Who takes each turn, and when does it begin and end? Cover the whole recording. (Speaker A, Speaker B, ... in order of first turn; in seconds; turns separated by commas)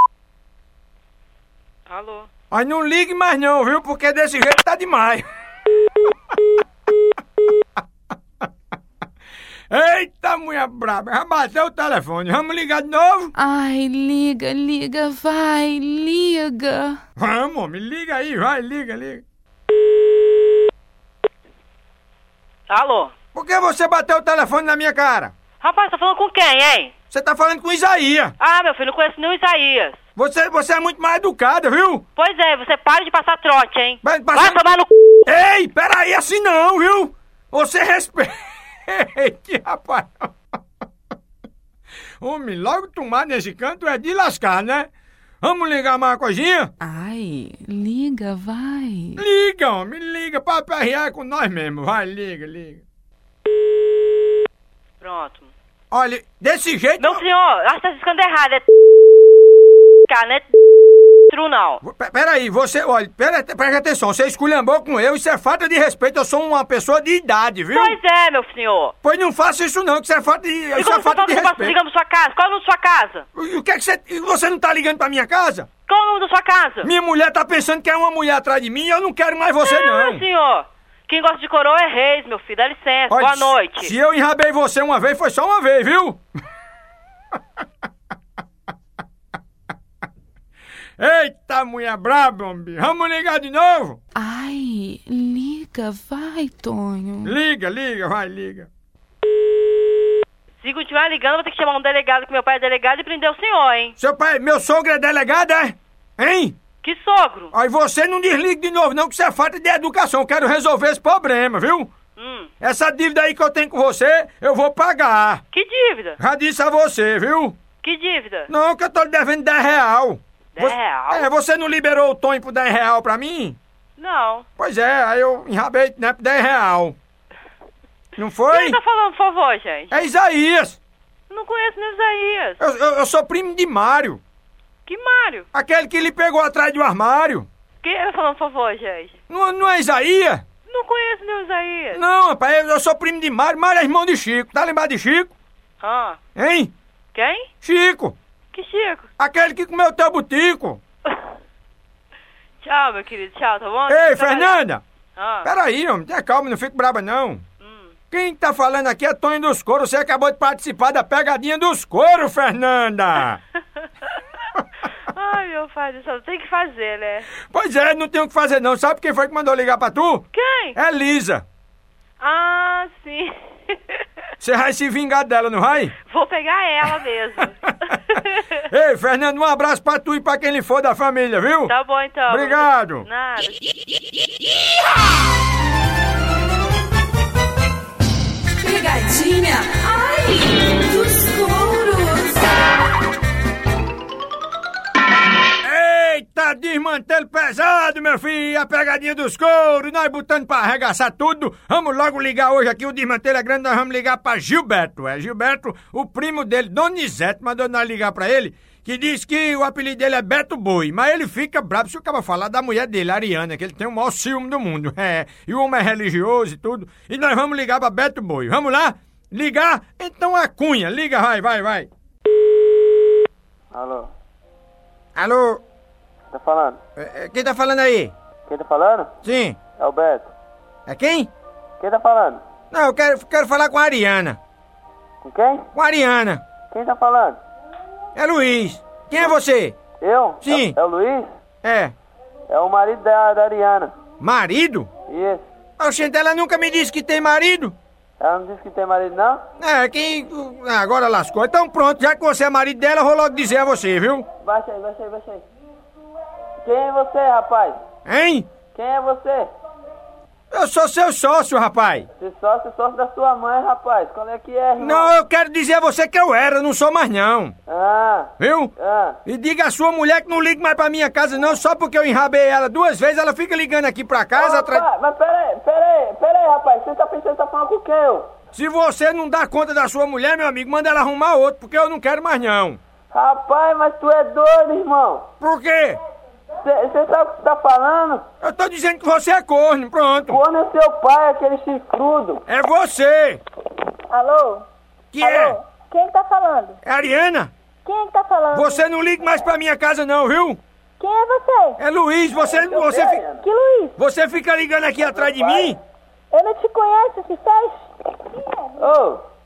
Speaker A: 1.9-2.3, Speaker B: 2.5-5.3, Speaker B: 9.7-13.3, Speaker C: 13.3-17.0, Speaker B: 17.2-19.2, Speaker A: 22.7-23.1, Speaker B: 23.3-25.3, Speaker A: 25.6-26.9, Speaker B: 27.1-28.3, Speaker A: 28.4-30.0, Speaker B: 30.2-32.0, Speaker A: 32.1-34.9, Speaker B: 34.0-34.6, Speaker B: 35.3-38.3, Speaker B: 38.9-40.3, Speaker B: 42.2-44.9, Speaker B: 45.4-46.7, Speaker C: 46.8-49.2, Speaker B: 49.2-52.8, Speaker A: 55.0-55.5, Speaker B: 55.9-57.2, Speaker A: 57.0-58.7, Speaker A: 60.1-60.5, Speaker A: 61.3-61.8, Speaker B: 61.8-68.0, Speaker A: 67.7-69.0, Speaker B: 69.0-71.8, Speaker A: 70.8-73.2, Speaker B: 73.3-75.7, Speaker A: 75.9-76.9, Speaker B: 76.8-80.2, Speaker A: 79.6-83.9, Speaker B: 83.1-86.2, Speaker B: 91.0-94.0, Speaker C: 94.1-97.3, Speaker B: 97.2-98.7, Speaker A: 100.6-104.0, Speaker B: 104.0-106.5, Speaker A: 106.8-107.5, Speaker B: 107.5-111.9, Speaker A: 112.2-112.5, Speaker B: 112.6-115.4, Speaker A: 115.5-116.2, Speaker B: 116.2-117.6, Speaker A: 117.8-118.5, Speaker B: 118.5-123.6, Speaker A: 120.5-121.3, Speaker A: 124.0-124.5, Speaker B: 124.6-127.0, Speaker B: 128.2-128.8, Speaker A: 128.5-130.0, Speaker B: 129.9-130.8, Speaker A: 131.3-132.6, Speaker B: 132.6-134.2, Speaker A: 134.9-135.5, Speaker B: 135.5-137.5, Speaker A: 137.8-139.2, Speaker B: 139.3-140.4, Speaker A: 140.7-142.0, Speaker B: 141.9-145.3, Speaker A: 145.8-146.2, Speaker B: 146.4-146.7, Speaker A: 147.1-147.5, Speaker B: 147.6-148.1, Speaker A: 148.5-149.1, Speaker B: 149.2-150.8, Speaker A: 152.6-154.6, Speaker B: 153.9-154.8, Speaker A: 155.2-155.5, Speaker B: 155.4-157.4, Speaker A: 157.6-157.9, Speaker B: 158.1-163.4, Speaker A: 165.1-167.3, Speaker B: 167.5-171.4, Speaker A: 170.3-170.8, Speaker A: 172.2-174.0, Speaker B: 174.4-175.9, Speaker A: 176.0-178.6, Speaker B: 178.7-181.7, Speaker A: 181.7-183.6, Speaker B: 182.3-183.1, Speaker A: 188.6-192.8, Speaker B: 195.6-221.9, Speaker D: 223.7-224.1, Speaker B: 225.2-225.6, Speaker D: 226.3-226.8, Speaker B: 227.0-228.1, Speaker D: 228.5-229.1, Speaker B: 229.2-229.6, Speaker D: 229.7-230.3, Speaker B: 230.9-231.3, Speaker D: 231.8-232.4, Speaker B: 232.7-234.4, Speaker D: 235.2-235.7, Speaker B: 235.8-236.4, Speaker D: 236.7-237.4, Speaker B: 238.2-239.8, Speaker D: 240.0-241.3, Speaker B: 240.4-240.8, Speaker B: 241.6-241.9, Speaker D: 242.5-243.9, Speaker B: 244.2-244.9, Speaker D: 245.1-245.4, Speaker B: 245.8-247.7, Speaker D: 248.2-249.4, Speaker B: 249.6-254.2, Speaker D: 254.4-255.4, Speaker D: 256.6-257.8, Speaker B: 258.1-258.5, Speaker D: 258.7-259.5, Speaker B: 260.5-262.1, Speaker D: 262.2-265.1, Speaker B: 264.8-267.6, Speaker D: 267.7-269.2, Speaker B: 268.4-268.7, Speaker B: 269.2-274.9, Speaker D: 274.4-278.3, Speaker B: 278.5-282.8, Speaker D: 283.1-285.3, Speaker B: 285.4-286.0, Speaker D: 286.6-288.2, Speaker B: 288.4-290.4, Speaker D: 290.3-292.4, Speaker B: 292.5-293.4, Speaker E: 294.1-294.6, Speaker B: 295.1-295.6, Speaker E: 295.2-296.8, Speaker B: 296.9-297.5, Speaker E: 297.9-298.8, Speaker B: 298.5-300.6, Speaker E: 301.0-301.8, Speaker B: 301.8-303.2, Speaker D: 302.3-303.4, Speaker E: 303.4-304.0, Speaker B: 304.0-305.8, Speaker D: 305.1-305.8, Speaker E: 306.3-308.9, Speaker D: 308.8-309.2